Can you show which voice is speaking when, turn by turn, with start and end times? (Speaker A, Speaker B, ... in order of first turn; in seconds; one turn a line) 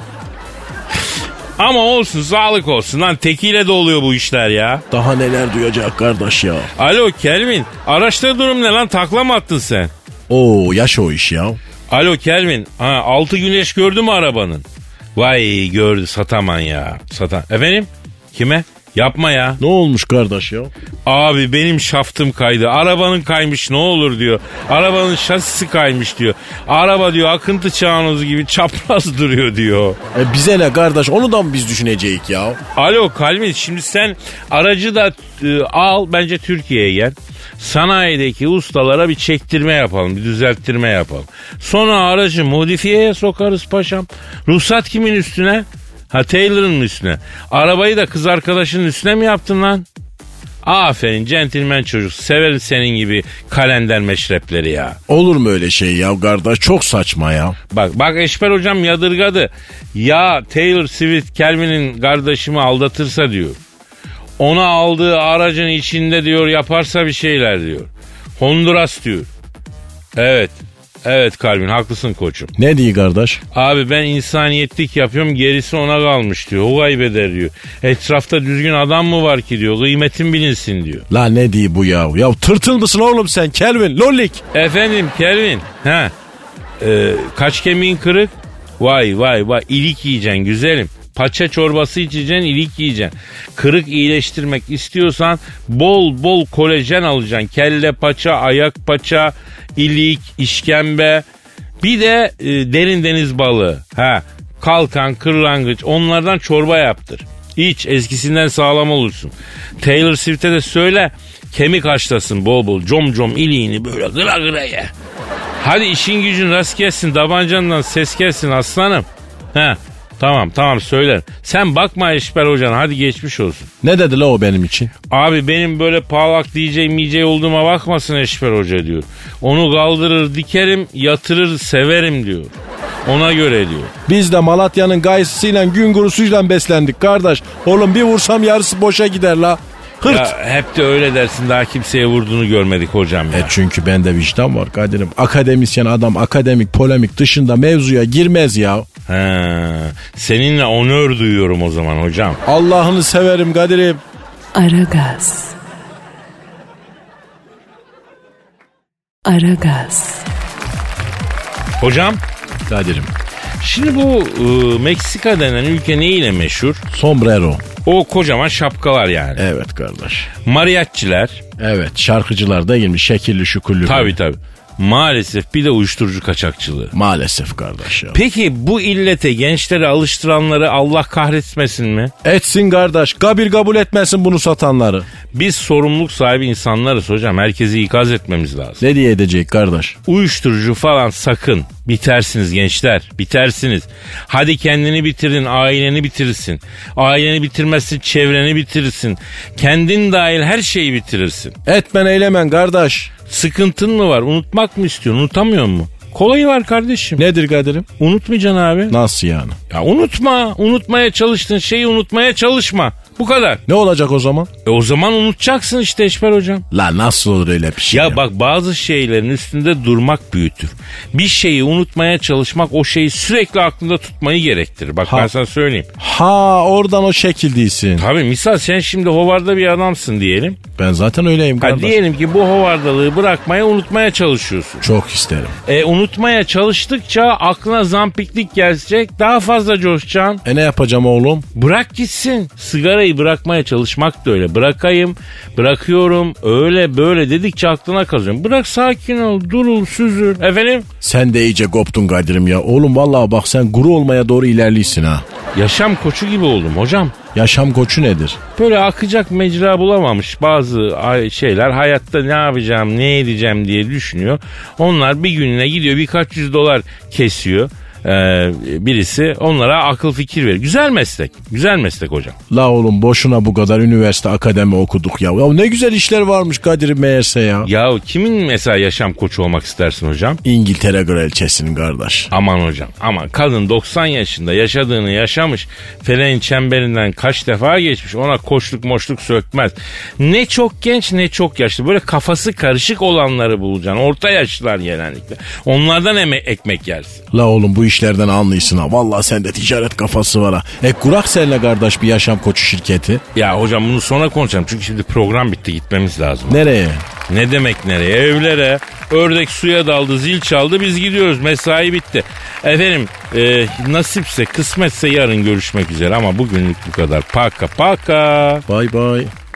Speaker A: 1.6-4.8
Speaker B: 4.9-6.7
Speaker A: 6.8-9.9
Speaker B: 10.3-11.6
Speaker A: 11.9-14.6
Speaker A: 15.2-19.6
Speaker B: 19.6-20.7
Speaker A: 21.1-30.0
Speaker B: 30.1-32.6
Speaker A: 32.7-49.9
Speaker A: 50.6-55.0
Speaker B: 55.1-57.6
Speaker A: 57.7-63.6
Speaker A: 64.4-69.3
Speaker A: 70.2-72.5
Speaker B: 72.6-73.4
Speaker A: 73.5-81.0
Speaker B: 81.1-84.4
Speaker A: 84.5-86.1
Speaker A: 86.8-101.2
Speaker A: 101.8-114.9
Speaker A: 115.6-123.7
Speaker B: 123.8-124.9
Speaker A: 125.1-132.5
Speaker A: 133.0-133.9
Speaker B: 134.1-140.3
Speaker A: 140.0-143.5
Speaker B: 143.3-148.9
Speaker A: 149.1-152.4
Speaker B: 152.4-154.0
Speaker C: 154.5-155.6
Speaker C: 159.2-160.3
Speaker A: 161.8-162.2
Speaker B: 162.7-163.1
Speaker A: 163.6-166.8
Speaker B: 166.9-167.7
Speaker A: 167.8-169.4
Speaker B: 169.4-170.3
Speaker A: 170.4-171.4
Speaker B: 171.6-174.1
Speaker A: 173.8-176.9
Speaker B: 176.9-178.2
Speaker A: 178.1-182.1
Speaker B: 182.2-185.1
Speaker A: 185.3-188.8
Speaker B: 188.8-190.0
Speaker A: 190.1-201.5
Speaker B: 201.7-203.1
Speaker A: 203.3-207.2
Speaker B: 207.2-207.9
Speaker A: 208.0-208.9
Speaker B: 208.9-209.6
Speaker A: 209.7-213.6
Speaker B: 213.7-214.5
Speaker A: 214.6-216.6
Speaker B: 216.7-218.2
Speaker A: 217.9-225.9
Speaker B: 225.1-225.3
Speaker B: 226.0-228.1
Speaker A: 228.0-230.6
Speaker B: 230.8-232.0
Speaker A: 231.6-234.8
Speaker B: 234.8-235.6
Speaker A: 235.7-240.4
Speaker B: 240.4-241.4
Speaker A: 241.5-250.9
Speaker B: 251.0-255.2
Speaker A: 255.5-257.1
Speaker B: 257.3-258.4
Speaker A: 258.6-272.4
Speaker B: 272.5-277.7
Speaker A: 277.6-280.4
Speaker B: 280.4-282.3
Speaker A: 282.3-297.2
Speaker B: 297.3-303.2
Speaker A: 303.3-306.6
Speaker B: 306.5-307.1
Speaker A: 307.3-318.6
Speaker B: 318.7-319.3